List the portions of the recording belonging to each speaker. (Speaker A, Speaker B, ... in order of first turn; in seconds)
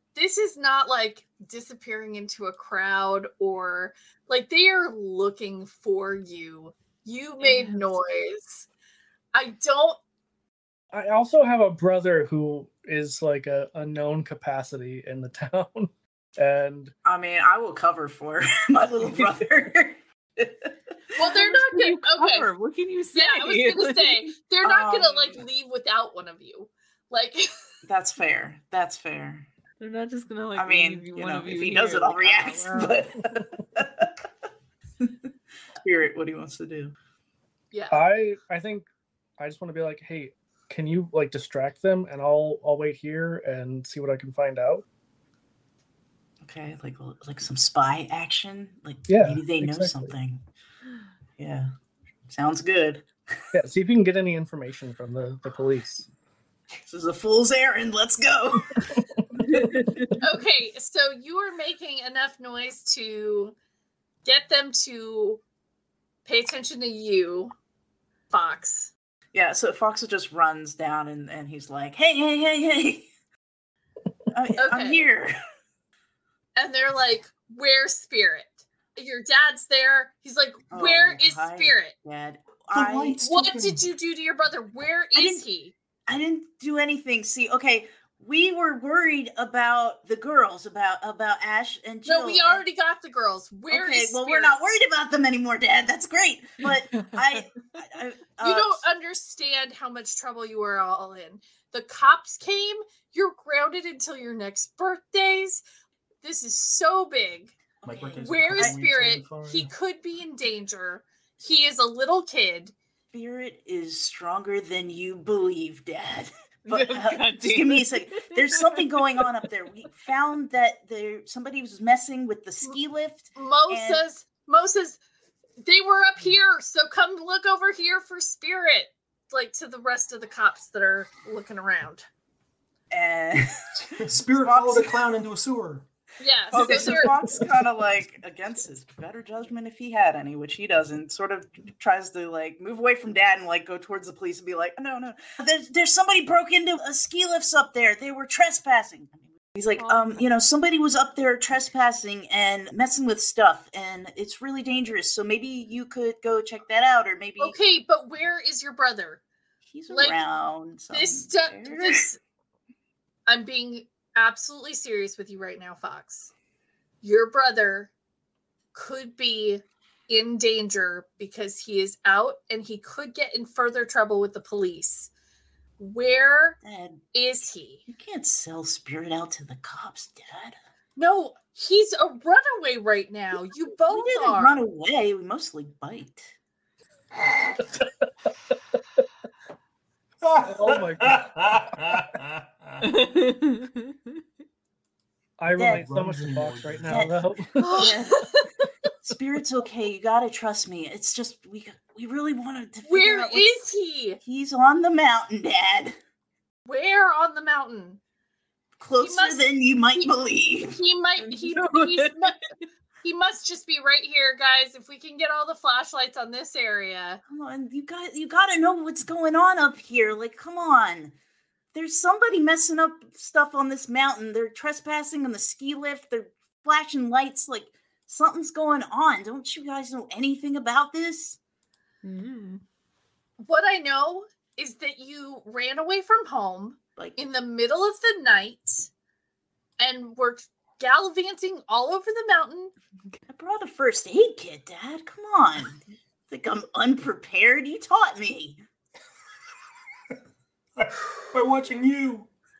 Speaker A: 0.1-8.7, 9.3-10.0, 21.1-22.5, 23.1-27.5, 37.7-38.0, 60.2-63.5, 64.2-65.4, 66.3-67.5, 68.3-68.9, 74.6-75.1, 76.5-81.9, 83.2-85.7, 92.0-94.7, 98.4-105.6, 106.2-107.5, 108.2-112.7, 123.3-125.0, 125.6-132.1, 136.2-137.3, 157.4-159.2, 159.9-160.2, 160.9-162.2, 163.3-166.3, 167.0-167.9, 168.7-175.1, 175.8-176.6, 177.1-177.8, 181.0-184.6, 197.6-198.4, 202.8-204.2, 206.7-208.0, 209.0-209.4, 210.6-212.4, 213.0-217.2, 233.4-238.9, 239.8-242.7
Speaker B: 7.4-7.9, 21.2-24.3, 29.8-33.0, 59.5-60.1, 116.7-119.3, 192.8-194.1, 211.2-212.4, 232.0-232.6
Speaker C: 10.9-16.9, 37.9-38.9, 39.4-44.8, 49.1-50.1, 53.5-56.1, 190.4-192.0, 195.4-197.8
Speaker D: 17.1-20.8, 24.6-25.4, 27.8-29.5, 30.6-34.2, 35.8-36.9, 46.4-50.4, 51.4-51.7, 52.3-53.1, 56.9-59.7, 69.3-73.1, 74.3-75.4, 80.7-83.2, 85.1-85.4, 86.1-92.6, 93.7-98.8, 107.8-108.8, 113.1-124.0, 132.9-134.9, 136.5-157.6, 159.7-162.0, 176.6-177.0, 177.9-180.6, 183.9-186.3, 195.5-195.9, 196.9-198.4, 199.0-203.6, 204.2-206.0, 208.8-210.8, 217.3-221.1, 221.7-231.4, 243.3-248.6
Speaker E: 82.7-83.8, 107.8-109.7, 133.9-135.9, 190.2-192.9, 195.6-197.1, 250.8-252.3